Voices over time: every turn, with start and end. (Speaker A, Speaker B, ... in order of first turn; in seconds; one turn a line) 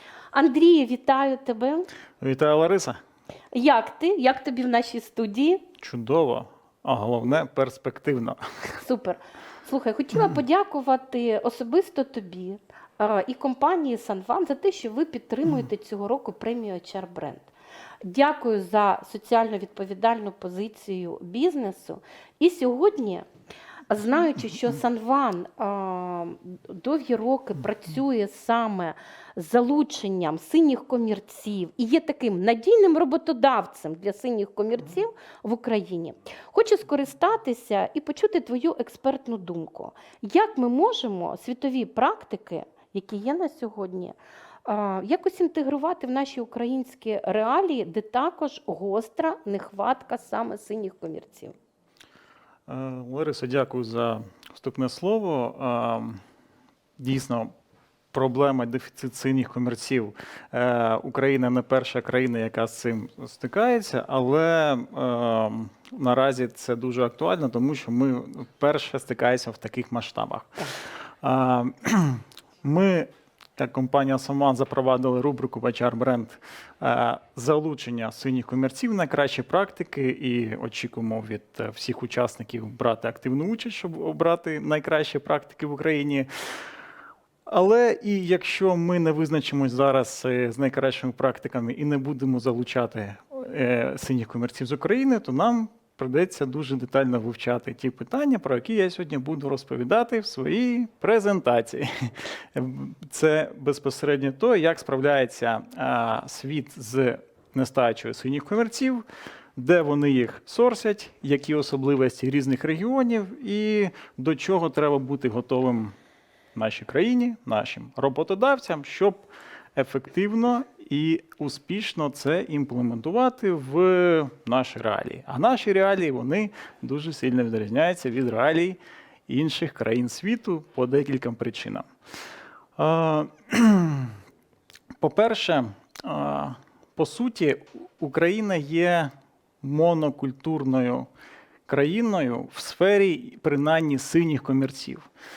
Speaker A: 0.3-1.9
Speaker B: 2.2-3.0
Speaker A: 3.5-5.7
Speaker B: 5.8-8.8
Speaker A: 8.8-17.5
Speaker A: 18.1-23.3
Speaker A: 23.9-51.5
Speaker B: 52.7-56.2
Speaker B: 57.0-57.5
Speaker B: 58.1-86.3
Speaker B: 87.5-109.0
Speaker B: 109.6-116.0
Speaker B: 116.5-131.9
Speaker B: 132.8-134.2
Speaker B: 135.0-141.1
Speaker B: 141.7-145.1